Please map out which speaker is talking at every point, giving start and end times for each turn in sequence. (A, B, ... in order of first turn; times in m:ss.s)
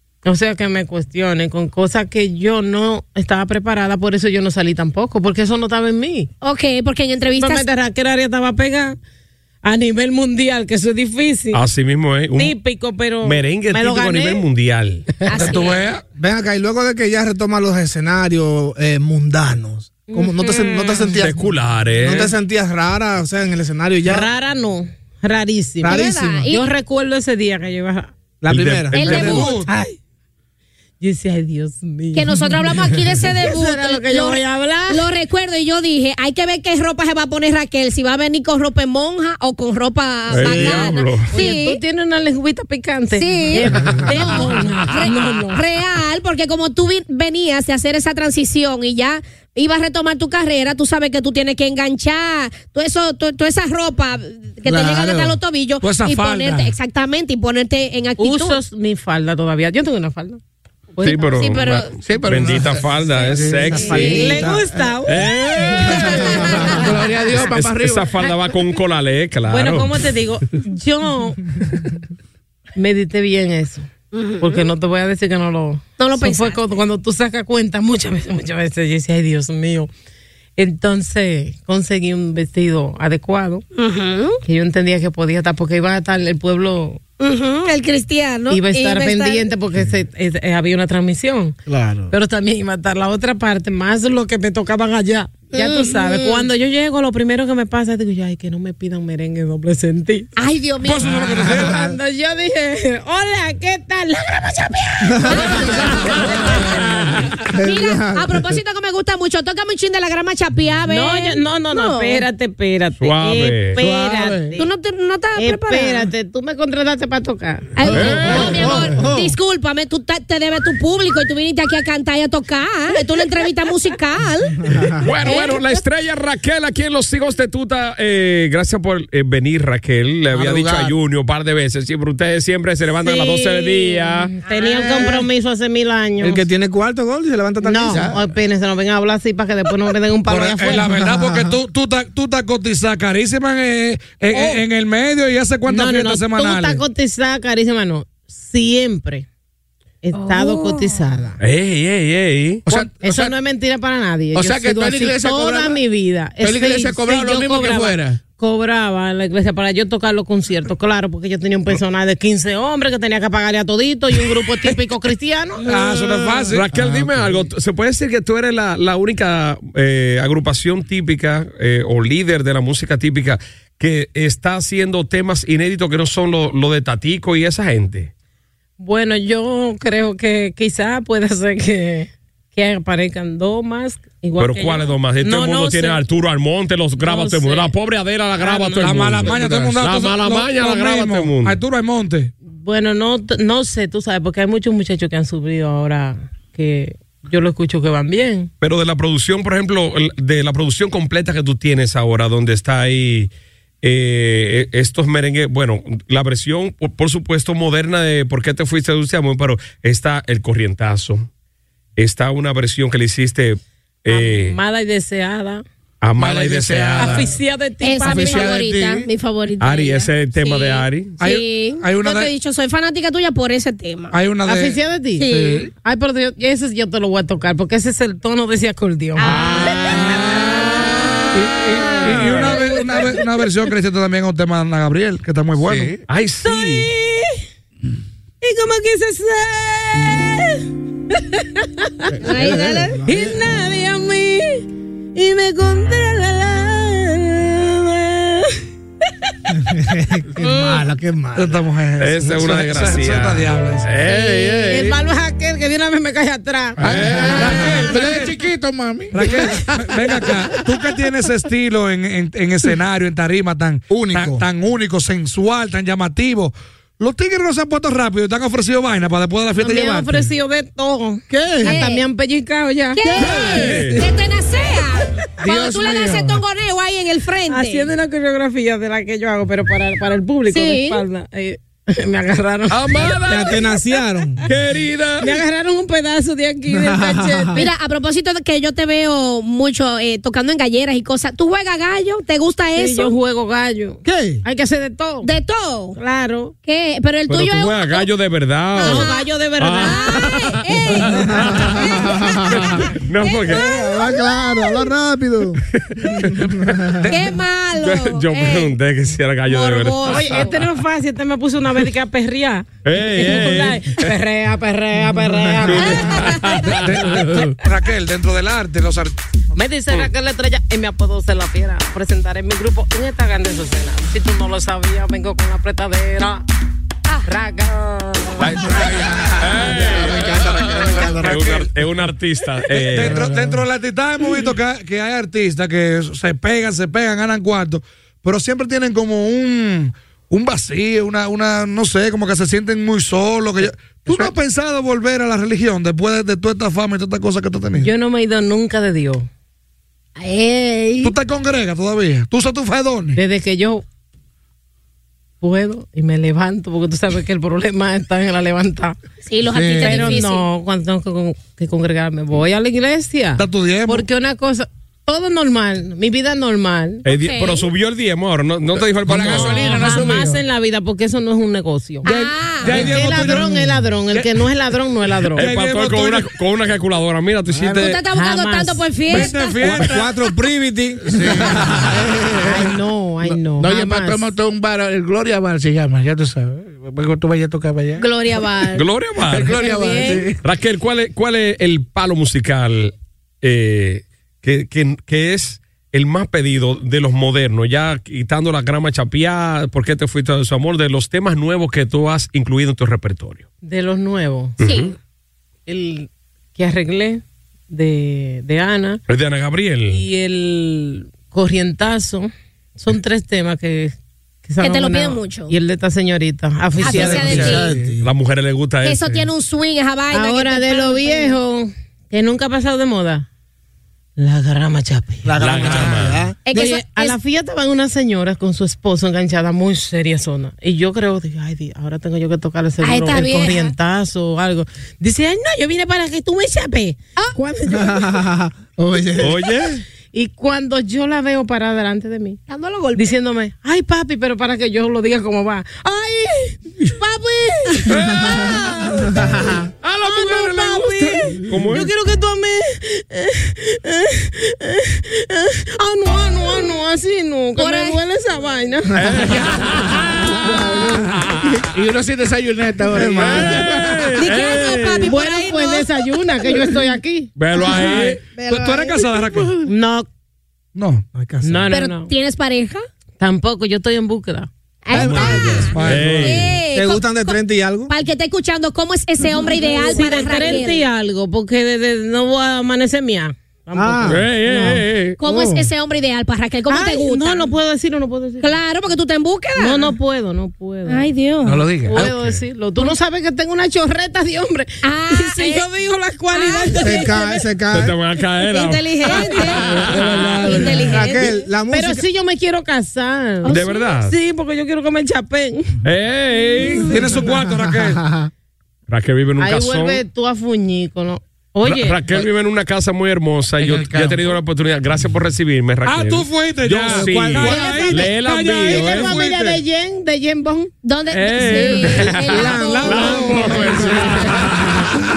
0:00.2-0:06.3 A
0:06.4-0:07.6 B
0:07.3-0:09.0 A
0:09.6-0:11.6 A
0:11.5-0:12.6 C
0:12.3-0:14.4 A
0:13.2-0:15.1 C
0:15.3-0:15.9 B
0:15.3-0:16.0 D
0:16.2-0:24.3 E
0:20.1-0:21.1 A
0:20.5-0:21.0 B
0:21.1-0:22.3 C
0:24.0-0:28.1 A
0:25.8-0:26.7 B
0:25.8-0:26.5 E
0:28.4-0:29.4 E
0:28.5-0:29.0 C
0:28.8-0:29.7 D
0:28.9-0:29.6 B
0:29.0-0:30.0 A
0:31.0-0:32.5 A
0:32.1-0:41.8 B
0:33.3-0:35.0 A
0:40.3-0:41.3 C
0:40.4-0:40.8 E
0:41.3-0:45.6 A
0:43.2-0:58.6 B
0:54.6-0:55.4 E
0:55.8-0:56.7 D
0:58.2-1:00.4 A
1:00.9-1:01.5 A
1:01.0-1:04.3 C
1:01.4-1:02.0 B
1:02.0-1:04.2 F
1:03.2-1:04.4 B
1:03.5-1:04.7 E
1:03.8-1:06.7 A
1:05.0-1:06.6 C
1:05.8-1:07.0 B
1:06.6-1:08.2 F
1:07.5-1:10.0 C
1:09.5-1:11.9 A
1:12.8-1:13.9 A
1:14.1-1:14.6 B
1:14.4-1:19.9 A
1:16.0-1:16.8 B
1:20.6-1:23.6 A
1:23.7-1:24.4 B
1:24.4-1:27.0 A
1:27.2-1:29.5 B
1:28.5-1:31.6 A
1:31.7-1:32.1 F
1:32.1-1:40.3 A
1:35.5-1:36.5 B
1:40.4-1:41.4 B
1:40.8-1:41.8 D
1:41.4-1:46.8 A
1:41.5-1:42.0 E
1:45.1-1:45.8 E
1:45.2-1:46.2 B
1:47.5-1:48.5 E
1:47.5-1:52.2 B
1:50.9-1:54.7 A
1:53.0-1:53.8 C
1:53.8-1:54.6 F
1:54.6-1:56.1 B
1:55.4-1:58.8 A
1:57.8-2:05.8 B
1:57.8-1:59.3 F
1:57.9-1:58.5 C
1:58.7-1:59.3 E
2:05.0-2:14.3 C
2:10.3-2:10.9 F
2:13.0-2:16.4 A
2:14.4-2:15.3 B
2:16.2-2:18.1 E
2:17.6-2:20.9 A
2:17.8-2:18.2 F
2:20.3-2:26.8 D
2:20.9-2:21.5 E
2:24.3-2:24.6 A
2:25.7-2:29.2 A
2:30.0-2:31.4 A
2:30.1-2:31.0 B
2:31.4-2:32.6 C
2:32.6-2:33.3 F
2:33.0-2:45.6 A
2:34.3-2:35.8 F
2:36.4-2:38.2 F
2:45.6-2:46.7 D
2:46.4-2:47.4 F
2:46.5-2:58.1 C
2:58.8-3:06.0 A
3:04.4-3:11.6 C
3:07.0-3:07.7 A
3:08.4-3:09.2 A
3:08.8-3:12.3 D
3:12.5-3:18.5 A
3:18.6-3:23.3 C
3:23.8-3:31.3 C
3:32.0-3:34.6 C
3:34.1-3:35.6 A
3:36.0-3:37.3 C
3:36.2-3:37.3 F
3:37.0-3:38.6 A
3:37.8-3:44.2 B
3:38.0-3:39.1 F
3:39.6-3:41.2 C
3:41.2-3:42.3 D
3:44.1-3:44.8 D
3:44.4-3:45.3 A
3:45.2-3:45.7 B
3:45.8-3:51.2 A
3:49.2-3:52.0 B
3:49.8-3:56.0 D
3:51.4-3:52.4 F
3:51.9-3:53.4 A
3:52.0-3:52.6 C
3:55.6-3:56.0 F
3:56.1-3:56.9 C
3:56.4-3:57.4 A
3:58.4-4:08.6 A
4:02.2-4:03.1 B
4:02.2-4:03.4 E
4:09.5-4:11.6 E
4:10.4-4:10.8 A
4:11.3-4:13.9 D
4:12.0-4:15.0 C
4:14.1-4:16.8 A
4:16.8-4:20.9 F
4:16.8-4:17.6 C
4:16.9-4:18.4 D
4:19.1-4:30.3 D
4:23.9-4:24.4 E
4:29.6-4:33.8 A
4:31.3-4:31.7 E
4:31.6-4:32.0 B
4:32.9-4:37.9 B
4:33.2-4:34.0 C
4:35.4-4:36.4 F
4:37.5-4:43.8 A
4:40.5-4:41.0 B
4:42.7-4:43.7 C
4:43.1-4:44.4 E
4:44.4-4:45.4 C
4:45.2-4:47.7 A
4:46.7-4:47.6 E
4:47.5-4:53.1 B
4:52.7-4:55.3 A
4:54.0-4:54.4 E
4:55.2-4:56.0 B
4:55.9-4:56.5 A
4:56.6-4:58.1 B
4:57.3-5:01.8 C
4:58.7-5:04.8 B
4:58.8-5:00.4 A
5:01.4-5:02.7 E
5:02.5-5:03.6 C
5:03.5-5:07.0 E
5:05.7-5:06.5 C
5:07.1-5:08.7 B
5:07.8-5:10.5 C
5:09.4-5:10.6 B
5:10.0-5:17.4 A
5:12.8-5:14.1 C
5:15.6-5:17.5 C
5:15.8-5:16.6 B
5:16.6-5:19.1 D
5:19.5-5:26.4 A
5:27.2-5:28.7 A
5:28.4-5:28.8 C
5:28.5-5:31.5 F
5:28.8-5:31.6 E
5:29.4-5:33.2 C
5:32.7-5:47.9 D
5:33.0-5:33.6 F
5:47.8-5:49.3 A
5:50.2-5:51.1 B
5:51.0-5:53.2 D
5:53.1-5:53.8 A
5:55.4-5:59.0 A
5:59.2-6:00.4 B
5:59.5-5:59.9 F
5:59.8-6:07.0 A
6:03.4-6:04.1 D
6:07.0-6:07.7 B
6:07.0-6:09.9 C
6:09.0-6:10.4 F
6:09.3-6:12.1 A
6:12.0-6:12.9 B
6:12.1-6:14.3 D
6:12.6-6:15.5 A
6:15.3-6:16.3 D
6:15.4-6:18.0 C
6:17.5-6:17.9 E
6:17.8-6:19.8 B
6:18.1-6:18.8 A
6:19.1-6:20.3 D
6:19.6-6:21.7 E
6:21.1-6:28.0 F
6:22.4-6:24.3 A
6:28.0-6:28.9 B
6:28.7-6:29.6 C
6:29.2-6:30.4 F
6:29.6-6:30.2 B
6:29.7-6:30.2 A
6:30.4-6:43.4 C
6:43.6-6:44.6 A
6:44.6-6:44.9 C
6:44.6-6:44.9 B
6:45.7-6:49.0 A
6:49.1-6:50.0 C
6:49.9-6:57.6 A
6:54.6-6:55.5 B
6:56.8-6:57.7 B
6:56.8-6:58.1 E
6:57.0-6:57.7 F
6:58.0-6:59.2 C
6:58.8-7:01.4 B
7:00.1-7:03.3 A
7:04.2-7:05.4 A
7:05.2-7:06.4 E
7:05.4-7:06.3 C
7:06.4-7:07.2 B
7:06.5-7:18.2 A
7:12.8-7:13.7 B
7:17.7-7:19.4 E
7:19.2-7:19.8 C
7:20.1-7:22.4 A
7:22.5-7:23.1 B
7:22.9-7:27.9 A
7:27.9-7:28.6 C
7:29.1-7:29.6 E
7:29.8-7:31.9 C
7:30.0-7:39.0 A
7:37.6-7:38.0 B
7:38.9-7:41.7 C
7:39.2-7:44.2 F
7:42.9-7:43.8 E
7:43.2-7:45.1 C
7:44.2-7:46.7 B
7:45.0-7:47.3 A
7:47.4-7:48.2 C
7:47.7-7:49.6 D
7:49.6-7:50.1 A
7:50.7-7:51.0 D
7:51.1-7:51.7 E
7:51.4-7:52.1 A
7:51.7-7:52.8 B
7:53.2-7:54.5 A
7:54.8-8:00.8 B
7:54.9-7:57.9 E
7:55.0-7:56.5 C
7:55.1-7:56.5 D
7:59.8-8:04.8 A
8:03.7-8:04.2 E
8:04.1-8:05.2 C
8:05.2-8:07.5 B
8:05.2-8:05.7 E
8:06.7-8:08.5 A
8:08.4-8:09.9 B
8:09.6-8:11.1 A
8:10.9-8:11.7 B
8:11.4-8:12.4 F
8:11.8-8:17.4 A
8:14.8-8:15.7 B
8:16.3-8:16.9 B
8:16.7-8:18.0 E
8:17.7-8:20.6 C
8:18.4-8:21.4 B
8:19.1-8:25.8 A
8:19.4-8:20.9 F
8:20.7-8:22.0 E
8:23.4-8:24.0 B
8:23.4-8:24.1 C
8:25.8-8:27.0 C
8:26.9-8:28.0 D
8:27.2-8:28.3 E
8:28.9-8:30.0 C
8:29.4-8:32.0 A
8:31.6-8:39.1 C
8:33.6-8:34.4 F
8:35.8-8:39.6 D
8:36.9-8:37.7 E
8:37.5-8:40.7 A
8:40.8-8:43.3 B
8:41.1-8:45.0 C
8:42.2-8:44.5 E
8:42.6-8:43.9 D
8:43.7-8:44.3 F